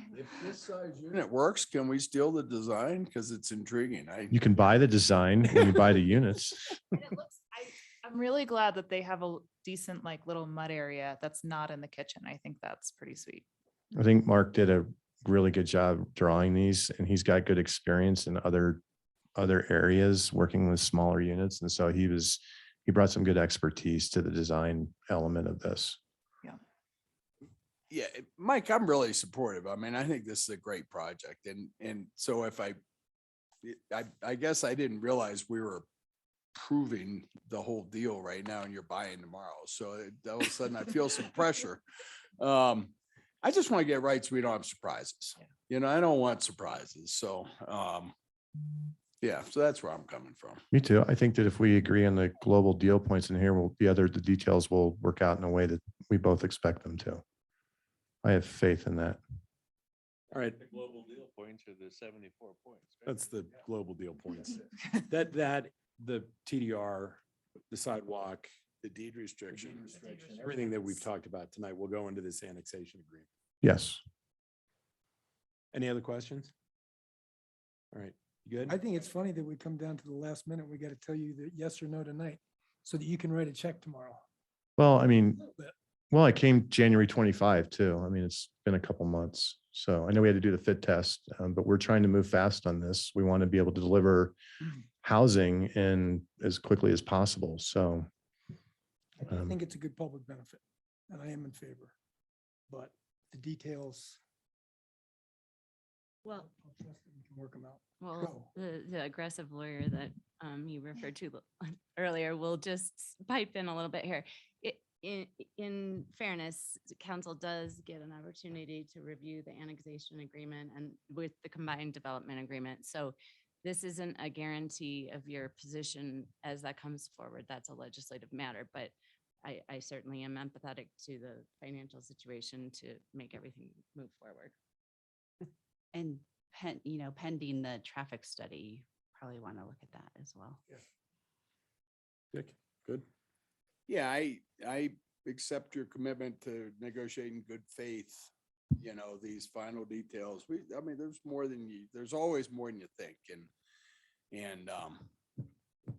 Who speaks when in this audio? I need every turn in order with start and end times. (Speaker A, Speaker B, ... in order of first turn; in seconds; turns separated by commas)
Speaker A: 1.1-4.3, Speaker B: 4.3-6.8, Speaker C: 6.9-13.5, Speaker B: 14.0-18.8, Speaker B: 19.4-26.0, Speaker A: 27.9-32.8, Speaker A: 33.6-35.9, Speaker A: 36.5-41.8, Speaker A: 42.4-48.1, Speaker A: 49.2-50.6, Speaker B: 50.7-57.2, Speaker B: 58.2-59.2, Speaker D: 60.3-60.6, Speaker E: 60.7-63.2, Speaker D: 63.1-68.5, Speaker A: 68.8-69.8, Speaker D: 69.5-73.3, Speaker B: 73.6-74.0, Speaker D: 75.7-76.5, Speaker D: 77.9-78.8, Speaker F: 78.7-84.2, Speaker B: 84.8-85.4, Speaker F: 85.4-85.7, Speaker B: 86.1-94.4, Speaker B: 95.0-98.1, Speaker F: 99.2-101.9, Speaker B: 99.3-99.5, Speaker F: 102.7-104.2, Speaker F: 106.3-108.5, Speaker G: 108.0-134.5, Speaker H: 135.9-140.6, Speaker D: 142.3-143.1, Speaker A: 143.9-153.5, Speaker A: 154.3-155.1